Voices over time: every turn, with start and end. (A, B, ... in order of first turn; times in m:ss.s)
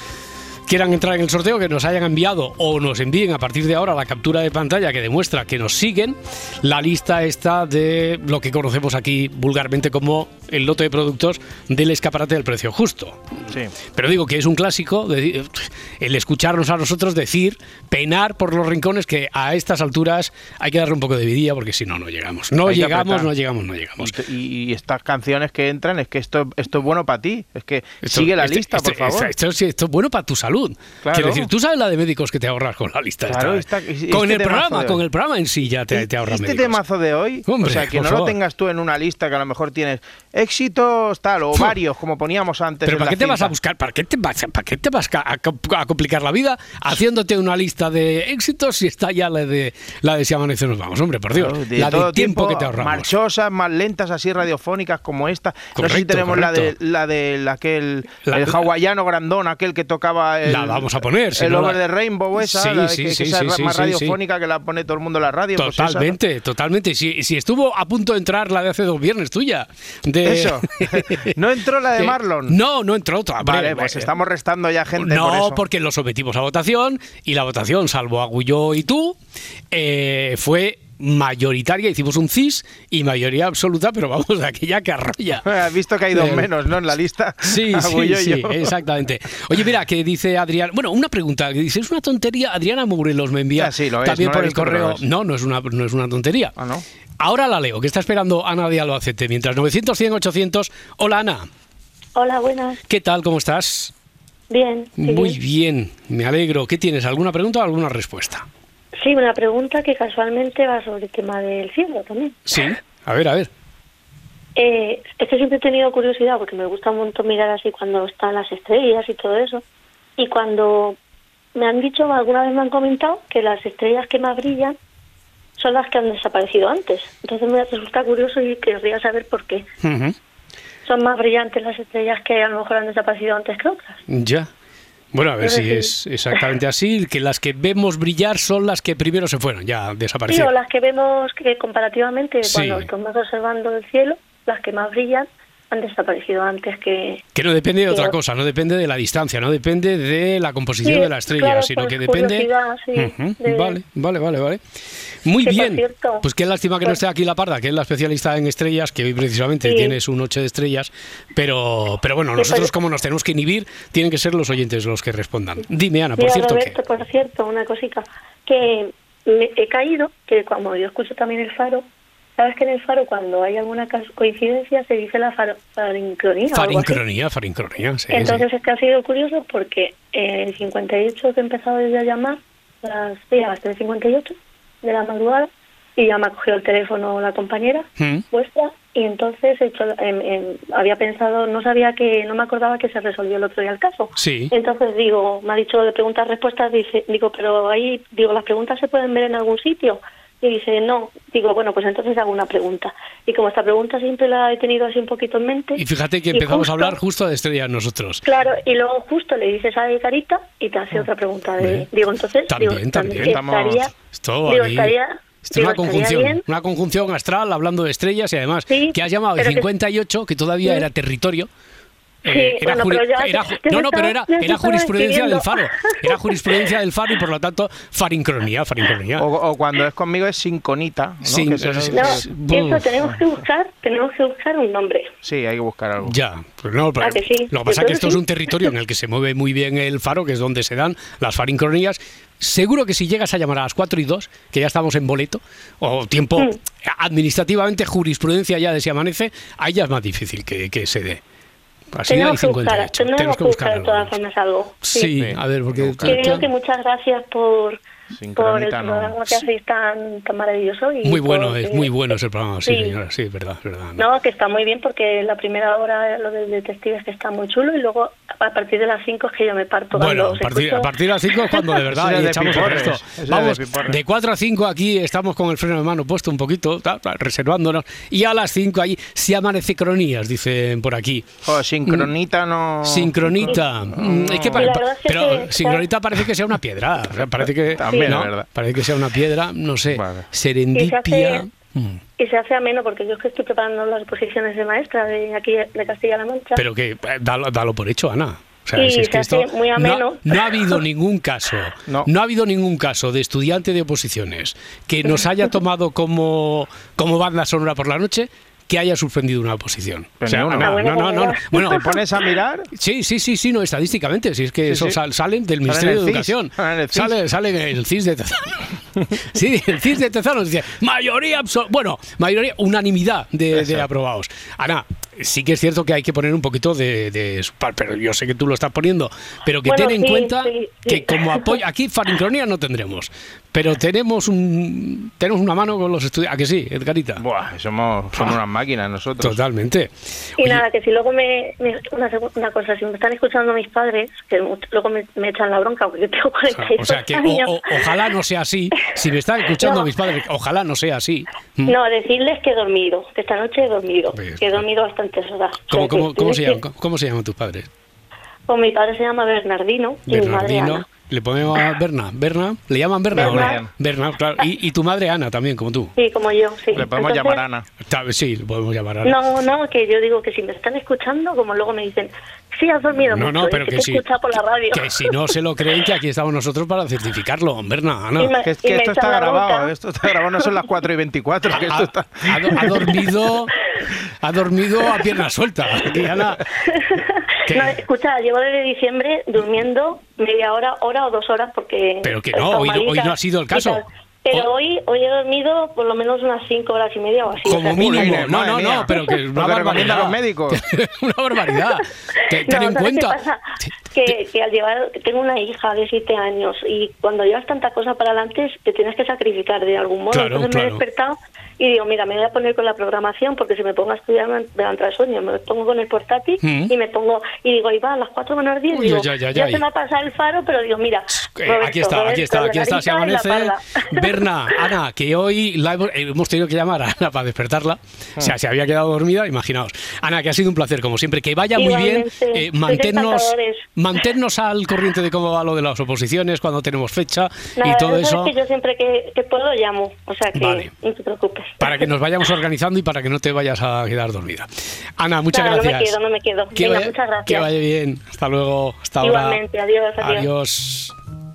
0:00.7-0:13.2 A
0:13.9-0:24.1 A
0:22.6-0:23.3 B
0:24.0-0:29.3 B
0:28.0-0:36.8 A
0:31.0-0:31.5 B
0:33.3-0:35.0 B
0:35.9-0:43.5 B
0:37.5-0:38.4 A
0:42.8-0:53.1 A
0:51.3-1:06.2 B
0:55.7-0:56.7 A
0:58.2-0:58.6 A
1:00.4-1:01.8 A
1:02.3-1:04.2 A
1:05.6-1:11.3 A
1:10.2-1:12.6 B
1:12.0-1:14.1 A
1:13.4-1:15.6 B
1:15.0-1:19.2 A
1:19.7-1:25.5 A
1:25.4-1:28.7 B
1:26.1-1:26.5 A
1:27.4-1:36.5 A
1:33.6-1:35.0 B
1:36.6-1:36.8 B
1:37.2-1:41.5 A
1:42.2-1:42.8 C
1:42.9-1:43.9 A
1:44.5-1:45.4 C
1:45.0-1:48.4 A
1:49.0-1:52.4 C
1:52.5-1:53.5 A
1:54.6-1:59.6 C
2:00.2-2:01.0 C
2:01.5-2:04.7 C
2:05.6-2:09.7 C
2:09.8-2:10.2 A
2:10.8-2:14.0 C
2:14.1-2:14.5 A
2:15.1-2:20.5 A
2:15.4-2:15.9 C
2:20.3-2:27.2 C
2:22.4-2:22.9 A
2:27.3-2:34.6 A
2:27.9-2:28.1 C
2:30.8-2:33.8 C
2:35.2-2:46.8 A
2:35.4-2:36.2 C
2:39.6-2:40.0 C
2:42.4-2:42.7 C
2:46.2-2:51.8 C
2:52.4-2:57.0 C
2:56.5-2:58.4 A
2:58.1-3:25.8 C
3:08.0-3:08.2 A
3:14.2-3:14.5 A
3:25.8-3:28.2 A
3:26.3-3:27.0 C
3:28.2-3:33.9 C
3:31.6-3:31.9 A
3:32.5-3:33.4 A
3:33.2-3:33.9 B
3:34.1-3:34.9 A
3:34.5-3:36.4 C
3:35.4-3:41.5 A
3:38.7-3:39.6 C
3:42.2-3:49.2 A
3:42.2-3:46.7 C
3:49.2-3:52.2 B
3:51.2-3:52.9 A
3:51.9-3:55.1 C
3:55.2-3:56.1 B
3:56.0-4:11.2 A
3:57.0-3:58.2 C
4:11.9-4:14.1 A
4:12.1-4:15.1 C
4:14.8-4:16.5 A
4:15.1-4:16.4 B
4:16.0-4:17.8 C
4:18.1-4:19.4 B
4:18.4-4:21.9 C
4:21.0-4:24.0 A
4:22.6-4:23.0 C
4:24.0-4:30.9 C
4:29.9-4:41.2 A
4:31.5-4:31.8 C
4:31.9-4:34.0 B
4:41.4-4:44.7 B
4:42.8-4:52.0 A
4:44.5-4:45.8 C
4:47.2-4:48.4 B
4:47.9-4:48.2 C
4:49.9-4:50.2 B
4:50.7-4:51.4 C
4:52.2-4:56.6 C
4:56.6-5:11.9 A
4:58.8-5:00.8 C
5:10.2-5:10.8 B
5:10.6-5:11.9 C
5:11.5-5:12.7 B
5:12.7-5:37.2 A
5:14.6-5:15.0 B
5:15.6-5:17.2 B
5:23.5-5:23.8 B
5:29.6-5:31.6 C
5:37.2-5:39.4 B
5:39.2-5:40.6 A
5:40.4-5:48.1 C
5:46.6-5:51.7 A
5:49.6-5:49.9 C
5:51.7-5:56.6 C
5:54.1-5:54.6 A
5:55.7-5:57.7 A
5:58.5-6:00.8 C
6:00.1-6:05.9 A
6:03.1-6:03.6 C
6:03.2-6:03.7 B
6:06.0-6:07.4 C
6:06.7-6:07.6 B
6:07.8-6:09.1 A
6:09.0-6:15.1 C
6:13.1-6:14.0 A
6:14.7-6:18.3 A
6:18.2-6:19.7 C
6:18.4-6:22.9 B
6:21.5-6:23.5 A
6:24.2-6:26.4 A
6:26.7-6:38.3 C
6:27.5-6:27.8 A
6:32.0-6:34.5 A
6:37.4-6:44.1 A
6:37.5-6:40.6 B
6:42.4-6:43.4 C
6:43.9-7:04.6 C
6:50.1-6:50.8 A
6:56.4-6:56.7 A
6:58.7-6:59.6 A
7:01.1-7:18.3 A
7:11.5-7:13.6 C
7:17.6-7:21.9 C
7:20.3-7:20.7 A
7:21.6-7:24.5 A
7:25.0-7:25.9 A
7:25.3-7:27.5 C
7:26.5-7:29.4 A
7:29.0-7:30.3 C
7:30.0-7:30.9 A